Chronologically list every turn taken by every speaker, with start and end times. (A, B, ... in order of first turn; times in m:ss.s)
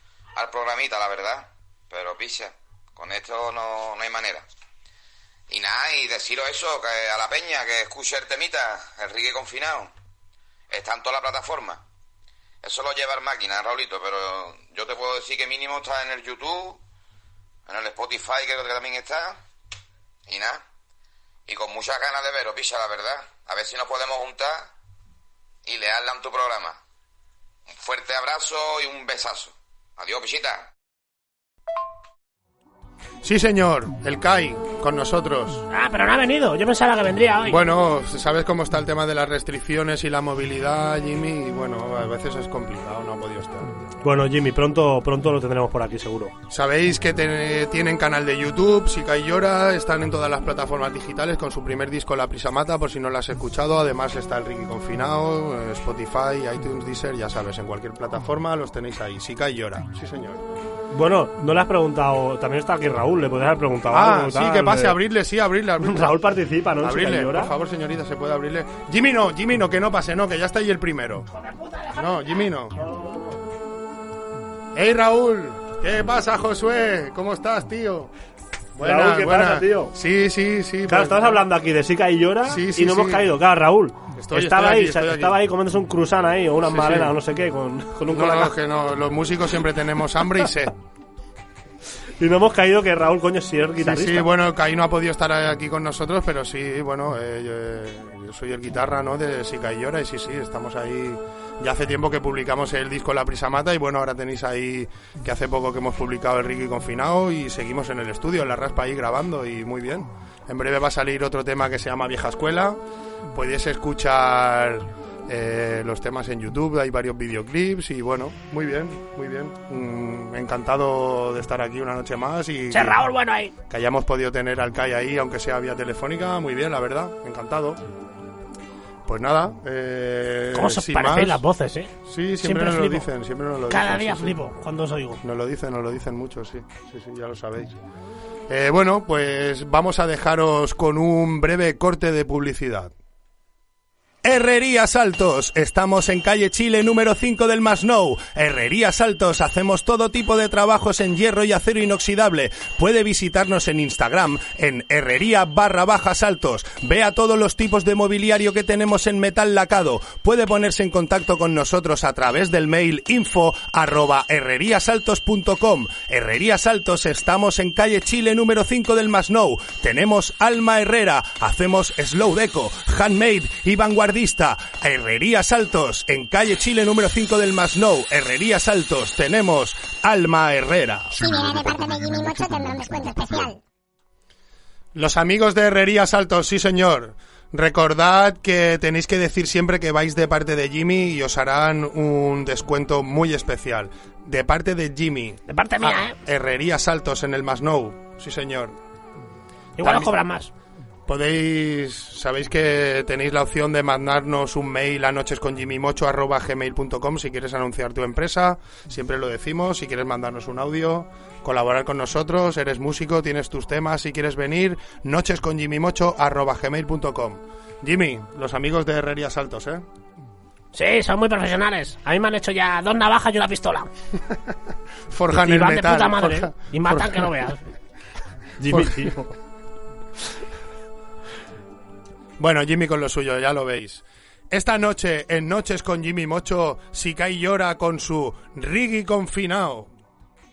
0:00.4-0:04.5 A
0:05.5-0:09.9 A
0:10.7-0:11.8 A
0:12.6-0:16.8 A
0:17.7-0:19.4 A
0:20.3-0:20.6 A
0:21.5-0:24.7 A
0:25.6-0:26.8 A
0:27.7-0:30.7 A
0:33.2-0:35.6 B
0:35.7-0:37.6 C
0:37.5-0:43.8 B
0:44.0-0:46.3 D
0:46.5-1:00.5 B
1:00.9-1:05.0 D
1:03.9-1:06.2 B
1:05.8-1:07.5 D
1:06.8-1:11.3 B
1:11.3-1:12.5 C
1:12.0-1:12.8 B
1:12.8-1:13.4 D
1:14.7-1:18.1 B
1:18.8-1:21.4 B
1:18.8-1:20.0 D
1:20.9-1:28.5 D
1:22.5-1:23.3 B
1:24.2-1:25.4 B
1:26.6-1:27.2 B
1:28.1-1:30.7 B
1:32.2-1:34.3 D
1:33.8-1:52.8 B
1:53.3-2:03.0 B
2:02.7-2:03.5 C
2:03.7-2:07.8 B
2:09.1-2:11.4 B
2:10.5-2:13.1 C
2:12.1-2:14.4 B
2:13.7-2:15.2 C
2:15.2-2:17.8 B
2:18.5-2:22.9 B
2:24.2-3:01.5 B
3:01.2-3:03.6 E
3:05.0-3:18.8 B
3:15.5-3:16.2 C
3:19.8-3:20.5 C
3:19.8-3:20.1 B
3:21.1-3:39.8 B
3:40.7-3:43.9 C
3:45.1-3:47.3 B
3:45.3-3:47.6 C
3:48.6-3:49.3 D
3:48.7-3:49.2 B
3:52.4-3:59.9 B